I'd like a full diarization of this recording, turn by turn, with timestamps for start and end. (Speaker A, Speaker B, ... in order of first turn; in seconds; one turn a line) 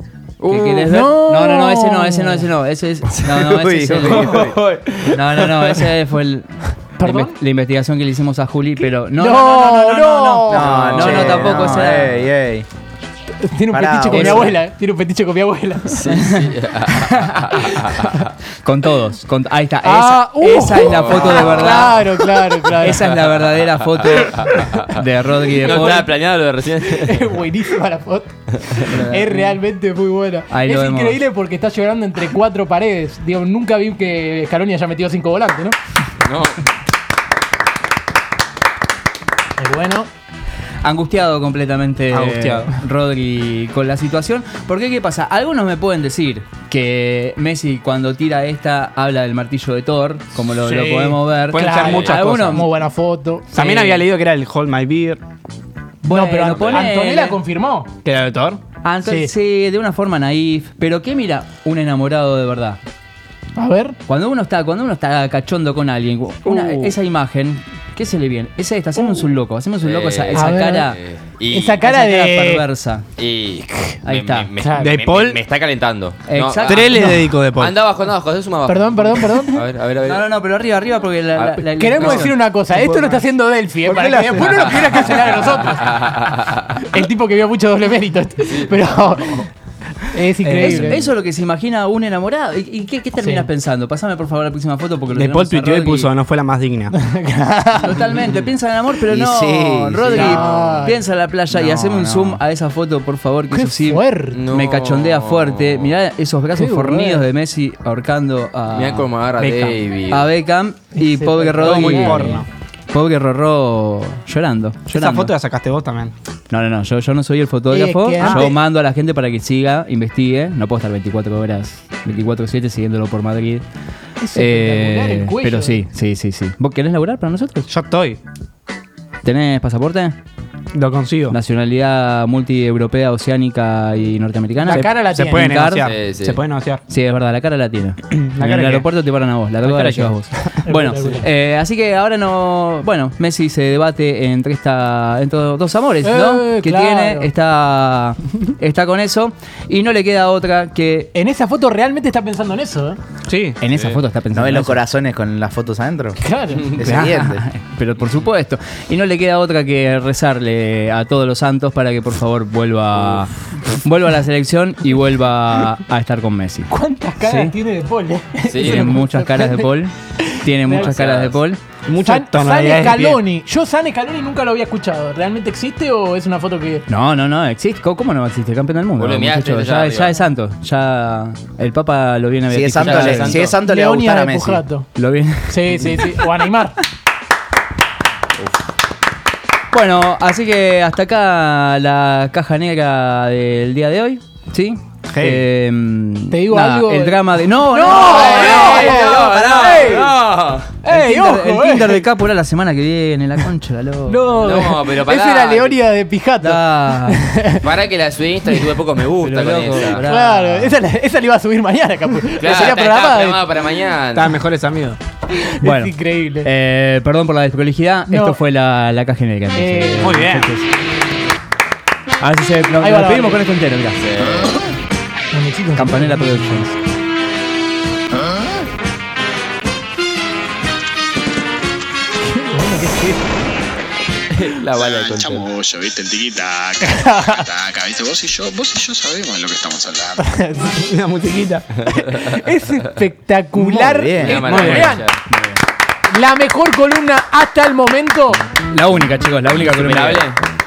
Speaker A: 0.4-1.0
Speaker B: 0.5-12.2
Speaker C: 0.8-2.5
Speaker D: 3.3-4.6
Speaker A: 4.0-5.9
Speaker C: 7.0-7.4
Speaker C: 9.2-10.7
Speaker D: 10.4-12.7
Speaker A: 10.5-12.2
Speaker C: 13.4-16.2
Speaker D: 13.7-14.6
Speaker B: 14.1-14.5
Speaker A: 15.9-18.2
Speaker B: 17.0-22.1
Speaker C: 19.8-23.1
Speaker A: 20.8-22.2
Speaker B: 22.7-26.1
Speaker A: 23.0-24.9
Speaker C: 24.3-24.7
Speaker A: 25.5-27.3
Speaker C: 25.6-26.0
Speaker C: 26.9-35.8
Speaker B: 28.9-29.4
Speaker B: 30.5-31.2
Speaker A: 36.2-36.6
Speaker C: 39.6-40.1
Speaker B: 40.8-52.7
Speaker E: 42.1-42.8
Speaker E: 50.6-52.7
Speaker C: 51.1-53.6
Speaker A: 51.8-52.2
Speaker E: 53.5-55.2
Speaker C: 56.0-57.9
Speaker B: 56.0-57.4
Speaker A: 56.4-56.9
Speaker E: 58.0-58.7
Speaker B: 58.8-62.8
Speaker C: 59.0-59.3
Speaker C: 63.6-64.0
Speaker B: 64.1-71.0
Speaker E: 66.5-67.0
Speaker A: 69.8-71.8
Speaker C: 70.3-70.9
Speaker C: 71.5-72.7
Speaker B: 71.8-73.0
Speaker A: 73.2-80.3
Speaker C: 73.7-74.0
Speaker B: 74.0-74.5
Speaker C: 74.6-75.0
Speaker E: 74.8-75.4
Speaker B: 76.3-76.9
Speaker E: 76.6-77.8
Speaker C: 78.7-79.6
Speaker B: 80.0-82.4
Speaker A: 81.3-82.3
Speaker C: 81.8-86.0
Speaker E: 82.7-83.2
Speaker E: 83.8-85.4
Speaker A: 85.8-86.6
Speaker C: 86.8-89.5
Speaker A: 88.5-88.9
Speaker C: 90.1-91.0
Speaker E: 90.4-91.0
Speaker B: 90.5-96.1
Speaker C: 93.2-93.5
Speaker E: 95.1-96.9
Speaker C: 96.9-98.2
Speaker B: 97.8-109.1
Speaker D: 99.1-100.4
Speaker C: 100.1-101.0
Speaker A: 101.5-102.3
Speaker E: 101.6-102.3
Speaker C: 103.5-104.4
Speaker A: 104.3-106.0
Speaker C: 106.5-107.3
Speaker A: 108.7-110.3
Speaker E: 109.4-109.8
Speaker B: 110.1-115.3
Speaker C: 111.0-112.4
Speaker E: 111.6-112.5
Speaker E: 114.9-116.1
Speaker B: 116.5-123.7
Speaker C: 117.7-118.5
Speaker E: 118.2-118.5
Speaker C: 124.2-125.8
Speaker B: 124.3-127.7
Speaker E: 127.7-128.2
Speaker B: 129.2-130.2
Speaker E: 130.7-131.4
Speaker B: 131.3-135.9
Speaker C: 134.6-135.5
Speaker E: 134.7-136.8
Speaker A: 135.8-136.4
Speaker B: 136.9-151.1
Speaker E: 138.1-138.9
Speaker E: 139.6-140.6
Speaker C: 140.7-141.3
Speaker C: 146.0-147.3
Speaker C: 151.1-153.0
Speaker E: 153.3-153.6
Speaker B: 153.6-154.8
Speaker A: 153.7-154.0
Speaker D: 154.3-156.2
Speaker C: 156.2-156.8
Speaker D: 156.7-157.5
Speaker B: 156.8-166.7
Speaker C: 166.7-170.9
Speaker B: 167.2-167.5
Speaker A: 168.5-168.9
Speaker B: 168.6-171.6
Speaker A: 170.7-171.4
Speaker E: 171.9-173.2
Speaker C: 172.0-176.9
Speaker B: 176.9-183.4
Speaker A: 179.0-180.2
Speaker D: 182.5-184.6
Speaker A: 182.8-183.6
Speaker C: 183.6-184.9
Speaker B: 185.0-186.3
Speaker C: 185.5-186.8
Speaker B: 189.7-199.3
Speaker E: 195.1-195.5
Speaker C: 196.3-200.2
Speaker A: 197.9-200.8
Speaker C: 200.8-202.1
Speaker B: 200.9-204.3
Speaker C: 204.1-207.7
Speaker A: 204.3-205.8
Speaker B: 206.4-207.3
Speaker A: 207.6-210.1
Speaker B: 209.2-210.8
Speaker C: 209.9-213.5
Speaker A: 212.4-214.4
Speaker E: 214.1-215.0
Speaker C: 215.3-216.5
Speaker B: 215.6-220.6
Speaker C: 218.1-218.4
Speaker C: 219.5-220.2
Speaker E: 220.0-220.5
Speaker B: 222.2-224.0
Speaker C: 222.8-223.4
Speaker A: 224.0-224.7
Speaker C: 225.3-226.7
Speaker B: 225.8-226.8
Speaker C: 232.2-233.2
Speaker A: 234.3-235.5
Speaker F: 234.8-240.2
Speaker C: 236.8-237.5
Speaker C: 240.2-240.8
Speaker E: 240.8-242.0
Speaker C: 242.1-245.1
Speaker D: 243.6-244.5
Speaker A: 244.2-245.2
Speaker B: 244.3-245.6
Speaker C: 246.1-248.4
Speaker B: 248.7-250.3
Speaker A: 249.5-250.4